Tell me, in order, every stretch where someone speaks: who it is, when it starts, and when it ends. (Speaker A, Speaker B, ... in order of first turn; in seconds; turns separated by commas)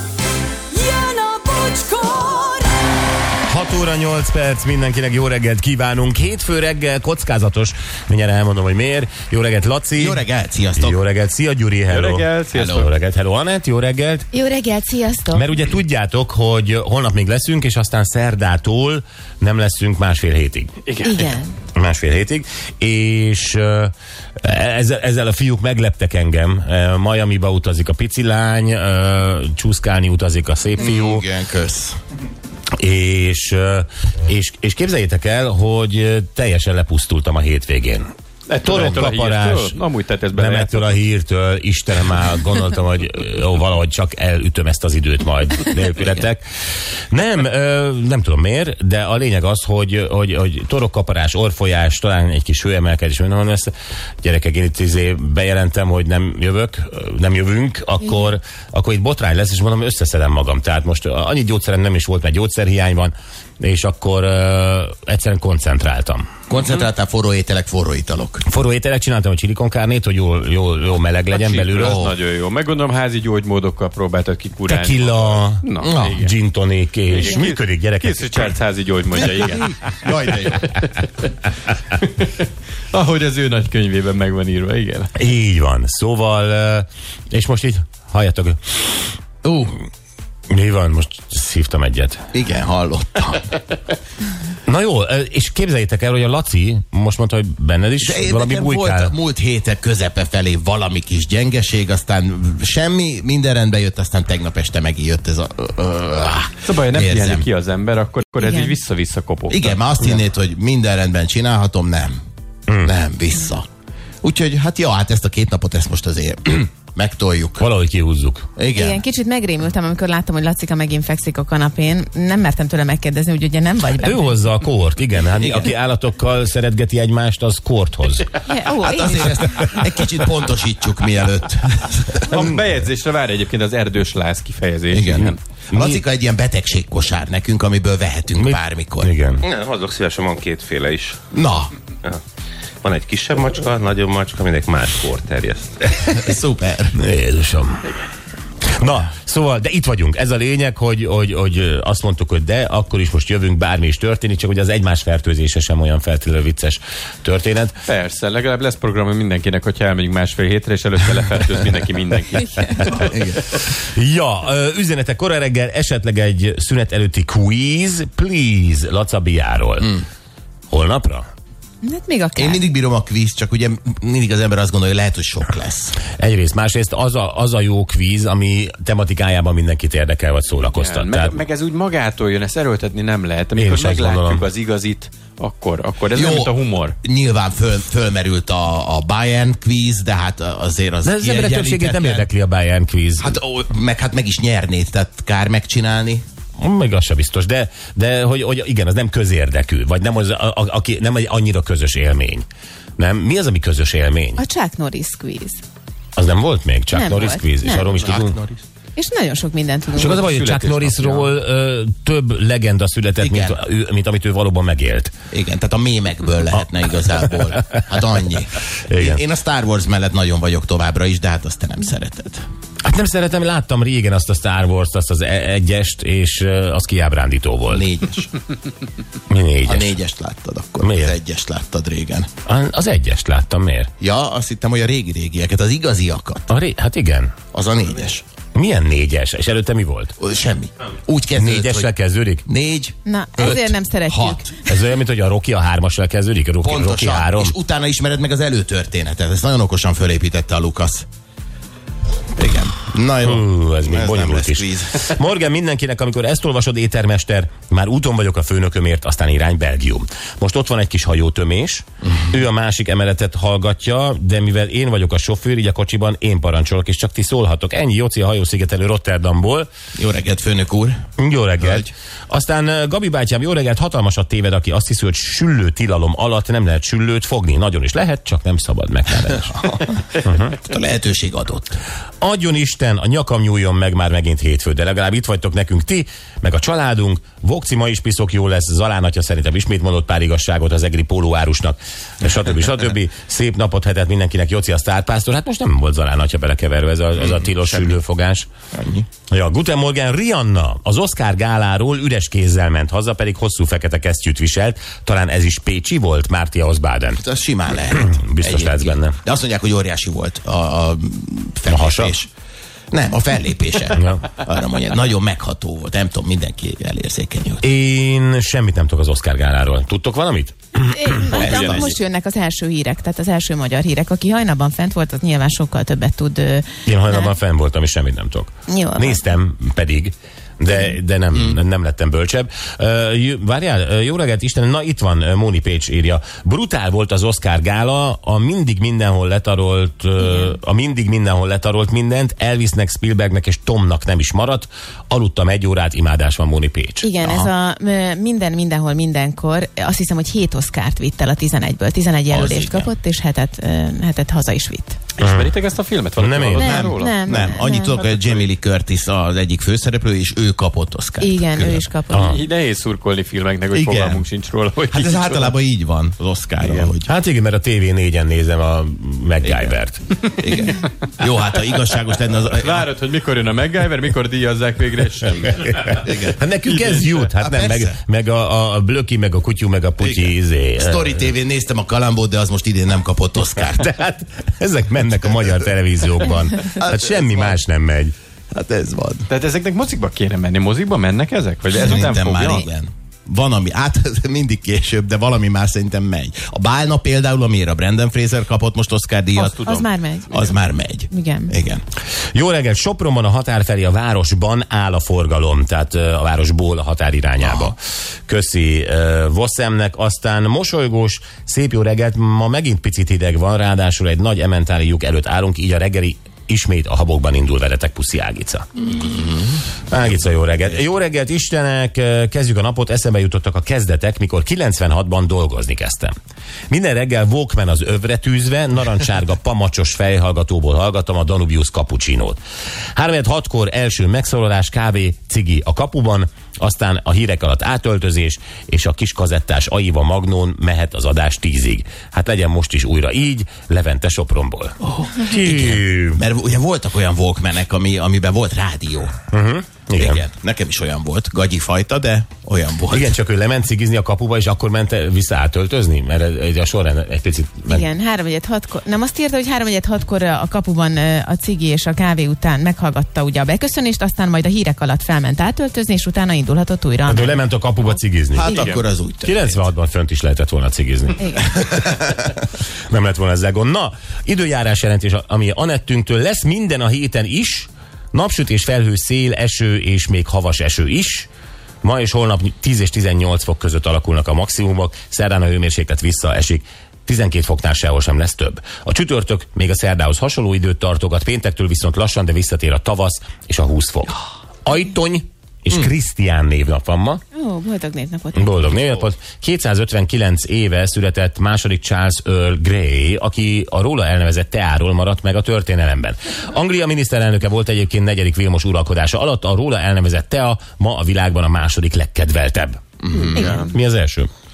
Speaker A: 0.7-3.0, Speaker B: 3.5-10.2, Speaker C: 10.0-11.0, Speaker B: 10.8-14.3, Speaker D: 11.9-12.9, Speaker C: 12.5-12.9, Speaker E: 14.3-15.5, Speaker B: 15.3-20.7, Speaker D: 20.9-21.4, Speaker E: 21.0-21.5, Speaker B: 21.8-31.2, Speaker C: 30.8-32.0, Speaker B: 32.8-38.1, Speaker D: 38.5-41.0, Speaker B: 38.6-39.8, Speaker B: 40.3-46.4, Speaker B: 47.1-53.7, Speaker B: 54.2-66.4, Speaker C: 66.5-68.5, Speaker B: 68.5-72.1, Speaker D: 71.3-76.3, Speaker C: 71.8-72.2, Speaker B: 74.7-78.3, Speaker C: 75.8-76.2, Speaker D: 77.1-81.1, Speaker C: 79.2-80.7, Speaker D: 82.0-82.3, Speaker D: 82.9-85.1, Speaker B: 85.2-88.6, Speaker C: 89.4-89.8, Speaker B: 90.5-92.2, Speaker C: 92.3-93.5, Speaker B: 94.7-99.1, Speaker C: 98.0-107.5, Speaker D: 106.7-109.8, Speaker E: 108.4-108.7, Speaker C: 109.5-112.2, Speaker B: 112.7-112.9, Speaker C: 112.8-113.7, Speaker C: 114.2-117.7, Speaker B: 117.6-118.5, Speaker C: 118.6-119.0, Speaker E: 118.7-124.4, Speaker B: 124.0-128.4, Speaker C: 125.4-125.7, Speaker E: 128.4-129.4, Speaker C: 128.8-132.2, Speaker D: 132.2-135.4, Speaker C: 134.9-139.1, Speaker B: 135.7-136.0, Speaker B: 138.4-139.5, Speaker F: 139.4-141.2, Speaker C: 141.3-141.7, Speaker F: 142.8-146.2, Speaker C: 146.1-147.0, Speaker B: 147.0-148.0, Speaker B: 148.7-157.8, Speaker D: 157.9-163.1, Speaker C: 162.9-163.6, Speaker B: 163.6-170.0, Speaker B: 170.7-171.3, Speaker E: 171.8-172.6, Speaker C: 172.4-176.0, Speaker B: 176.2-181.4, Speaker D: 180.7-187.0, Speaker B: 183.6-184.5, Speaker C: 186.1-192.3, Speaker B: 191.0-193.4, Speaker C: 193.2-196.2, Speaker B: 196.6-202.5, Speaker B: 203.0-204.4, Speaker E: 204.4-205.6, Speaker B: 206.2-208.4, Speaker E: 206.9-207.9, Speaker C: 208.0-208.6, Speaker E: 209.0-210.3, Speaker B: 209.9-215.1, Speaker D: 210.0-211.3, Speaker C: 213.2-213.6, Speaker C: 215.3-222.4, Speaker B: 218.9-219.2, Speaker B: 222.8-227.8, Speaker C: 227.7-228.3, Speaker B: 229.3-229.9, Speaker C: 229.7-232.3, Speaker B: 230.8-231.2, Speaker B: 232.5-233.9, Speaker C: 234.0-236.5, Speaker B: 236.5-237.3, Speaker C: 237.5-238.2, Speaker B: 238.6-240.1, Speaker C: 240.2-241.9, Speaker B: 241.3-242.4, Speaker C: 242.5-244.5, Speaker E: 243.1-244.8, Speaker B: 244.7-247.6, Speaker C: 246.6-251.1, Speaker C: 252.4-255.0, Speaker B: 253.2-269.7, Speaker C: 270.0-271.0, Speaker B: 271.2-280.6, Speaker C: 271.6-271.9, Speaker C: 279.6-279.9, Speaker C: 280.5-281.8, Speaker B: 282.2-298.5, Speaker C: 298.7-299.1, Speaker B: 299.3-307.2, Speaker C: 307.1-312.3, Speaker B: 307.9-309.2, Speaker B: 311.7-312.1, Speaker C: 312.9-317.6, Speaker B: 313.9-314.3, Speaker B: 317.6-321.5, Speaker E: 320.9-327.4, Speaker D: 321.3-321.9, Speaker C: 321.4-322.0, Speaker B: 326.9-347.5, Speaker E: 328.7-329.3, Speaker E: 340.2-340.5, Speaker E: 347.0-355.0, Speaker C: 352.3-352.9, Speaker D: 355.2-357.4, Speaker B: 355.2-355.5, Speaker B: 356.2-356.6, Speaker C: 356.6-361.8, Speaker E: 356.6-358.1, Speaker E: 361.2-362.4, Speaker B: 362.1-362.4, Speaker D: 362.1-365.6, Speaker C: 363.7-364.2, Speaker C: 364.9-367.1, Speaker D: 366.6-366.9, Speaker B: 367.1-370.0, Speaker C: 369.4-369.8, Speaker C: 370.4-372.9, Speaker D: 370.6-370.8, Speaker D: 372.4-376.1, Speaker C: 376.0-376.4, Speaker B: 376.3-381.3, Speaker D: 376.6-377.3, Speaker C: 377.3-378.0, Speaker C: 380.0-383.9, Speaker B: 383.8-388.1, Speaker C: 386.8-387.6, Speaker C: 388.5-389.3, Speaker D: 389.3-392.7, Speaker C: 391.8-399.6, Speaker E: 399.4-400.5, Speaker D: 399.4-399.9, Speaker C: 400.3-401.8, Speaker E: 401.1-401.5, Speaker B: 402.3-418.7, Speaker C: 407.4-407.7, Speaker C: 418.9-420.1, Speaker B: 419.9-426.1, Speaker B: 426.7-432.4, Speaker B: 433.0-446.2, Speaker C: 445.0-449.1, Speaker B: 449.3-450.2, Speaker C: 450.0-453.1, Speaker B: 452.9-457.9, Speaker E: 457.7-467.4, Speaker B: 467.1-468.6, Speaker C: 468.3-469.7, Speaker D: 468.5-468.8, Speaker B: 469.2-472.2, Speaker E: 471.2-471.5, Speaker B: 472.9-481.3, Speaker B: 481.8-497.2, Speaker E: 497.3-498.7, Speaker B: 498.4-512.8, Speaker C: 513.0-513.7, Speaker B: 513.4-514.3